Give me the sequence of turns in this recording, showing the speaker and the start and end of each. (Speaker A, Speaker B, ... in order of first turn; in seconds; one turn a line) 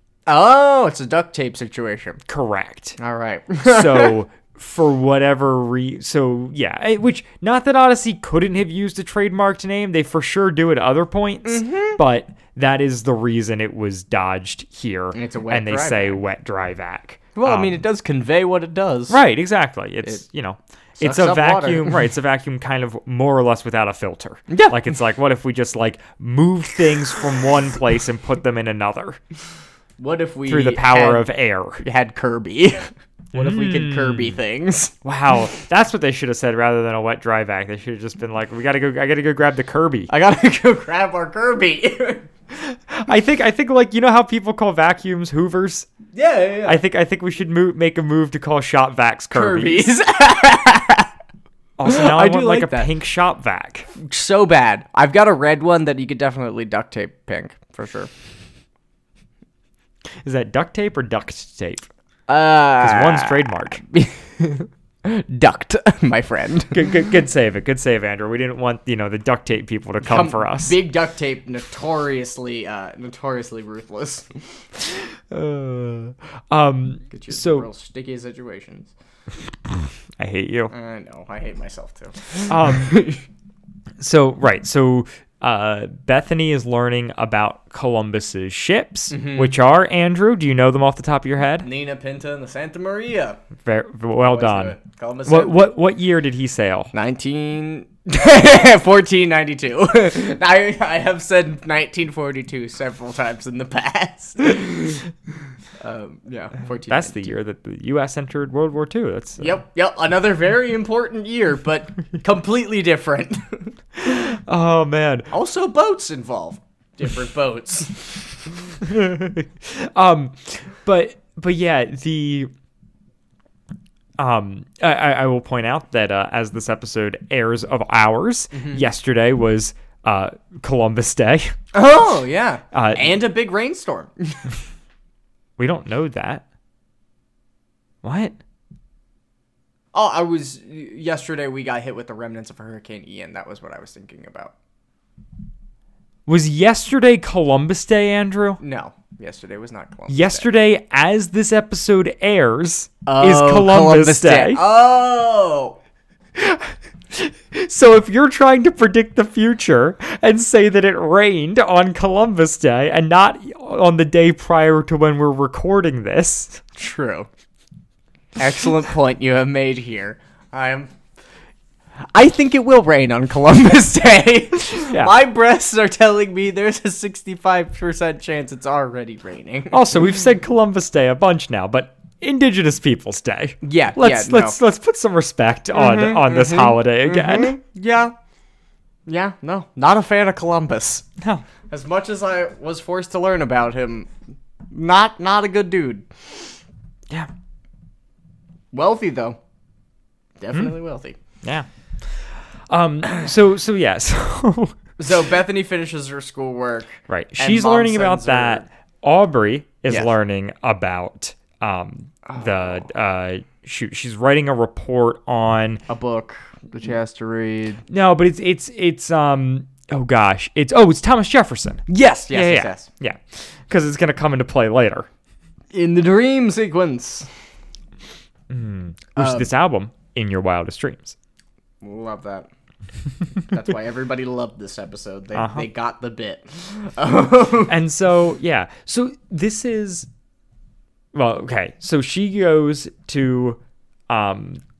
Speaker A: 0.3-2.2
Speaker B: 2.3-3.0
Speaker A: 3.0-4.2
Speaker B: 3.6-17.8
Speaker A: 11.4-12.0
Speaker A: 15.1-16.2
Speaker A: 17.4-19.2
Speaker B: 19.1-29.2
Speaker A: 21.0-22.0
Speaker A: 24.5-24.9
Speaker A: 30.0-31.3
Speaker B: 30.5-31.9
Speaker A: 31.8-35.0
Speaker B: 33.3-34.4
Speaker B: 35.0-40.1
Speaker A: 40.1-42.3
Speaker B: 42.5-45.9
Speaker A: 46.1-46.8
Speaker B: 46.6-49.9
Speaker A: 49.3-51.1
Speaker B: 51.8-53.9
Speaker A: 51.9-52.9
Speaker A: 54.0-58.1
Speaker B: 60.2-61.9
Speaker A: 62.3-66.8
Speaker B: 62.8-63.8
Speaker B: 66.7-70.8
Speaker A: 70.0-74.4
Speaker B: 74.8-77.7
Speaker A: 77.1-78.9
Speaker B: 80.2-80.7
Speaker A: 80.7-83.2
Speaker B: 82.5-83.0
Speaker B: 84.0-91.7
Speaker A: 89.1-89.5
Speaker A: 91.6-93.4
Speaker B: 93.7-96.9
Speaker A: 94.3-95.7
Speaker A: 96.9-105.0
Speaker A: 105.8-107.3
Speaker B: 106.9-109.6
Speaker A: 109.4-113.8
Speaker B: 114.0-115.3
Speaker A: 115.3-118.2
Speaker B: 118.8-122.5
Speaker B: 124.2-131.6
Speaker A: 128.5-128.8
Speaker A: 131.7-134.5
Speaker B: 132.7-133.2
Speaker B: 135.6-136.4
Speaker B: 138.0-138.4
Speaker A: 139.9-144.5
Speaker B: 146.3-148.6
Speaker A: 148.6-150.5
Speaker B: 150.1-154.6
Speaker A: 153.1-155.8
Speaker B: 156.4-166.6
Speaker A: 166.8-167.3
Speaker A: 168.4-170.9
Speaker A: 172.1-179.8
Speaker B: 174.8-175.2
Speaker B: 179.7-187.6
Speaker A: 183.6-184.6
Speaker A: 185.7-188.1
Speaker A: 189.1-191.1
Speaker B: 191.2-191.4
Speaker A: 191.7-194.1
Speaker A: 194.7-196.4
Speaker A: 198.7-199.4
Speaker A: 200.4-201.2
Speaker B: 201.4-204.8
Speaker A: 205.0-208.7
Speaker B: 207.1-215.8
Speaker A: 212.3-212.8
Speaker A: 215.9-217.8
Speaker B: 217.9-225.1
Speaker A: 221.9-222.9
Speaker A: 225.7-227.3
Speaker B: 228.5-231.2
Speaker A: 229.2-229.5
Speaker A: 231.8-232.5
Speaker A: 233.5-237.7
Speaker B: 235.3-235.7
Speaker B: 237.7-240.1
Speaker B: 241.1-244.6